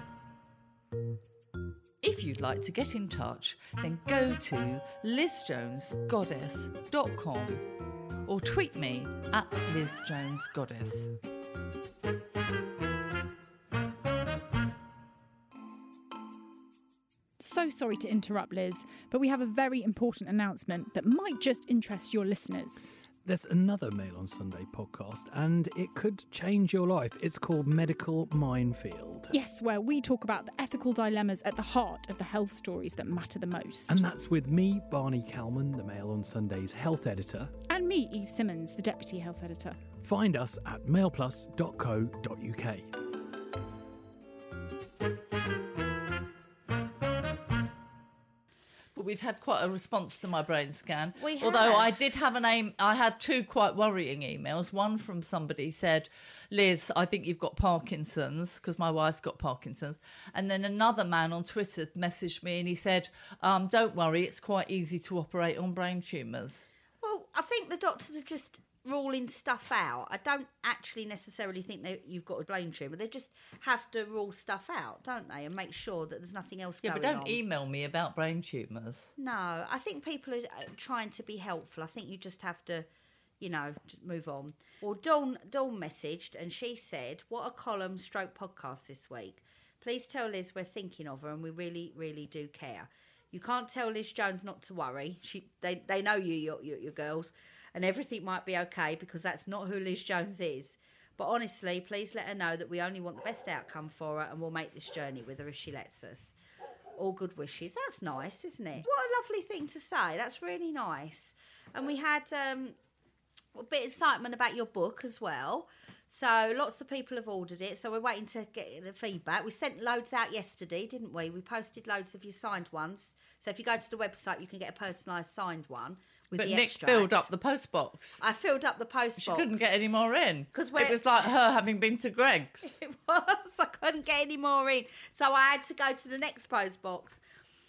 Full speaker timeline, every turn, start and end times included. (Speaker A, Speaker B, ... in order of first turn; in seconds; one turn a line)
Speaker A: 2.0-7.6
Speaker A: 8.2-11.1
Speaker B: 17.4-22.9
Speaker C: 23.2-29.3
Speaker B: 29.3-34.0
Speaker C: 33.9-37.5
Speaker B: 37.7-39.8
Speaker C: 40.0-42.9
Speaker A: 48.9-66.6
Speaker D: 51.2-52.1
Speaker D: 67.0-77.4
Speaker A: 76.8-79.1
Speaker D: 79.2-82.9
Speaker D: 83.4-106.3
Speaker D: 107.0-112.8
Speaker D: 113.5-127.3
Speaker A: 126.3-128.2
Speaker D: 128.2-129.7
Speaker A: 129.2-132.8
Speaker D: 130.5-131.0
Speaker D: 132.6-137.2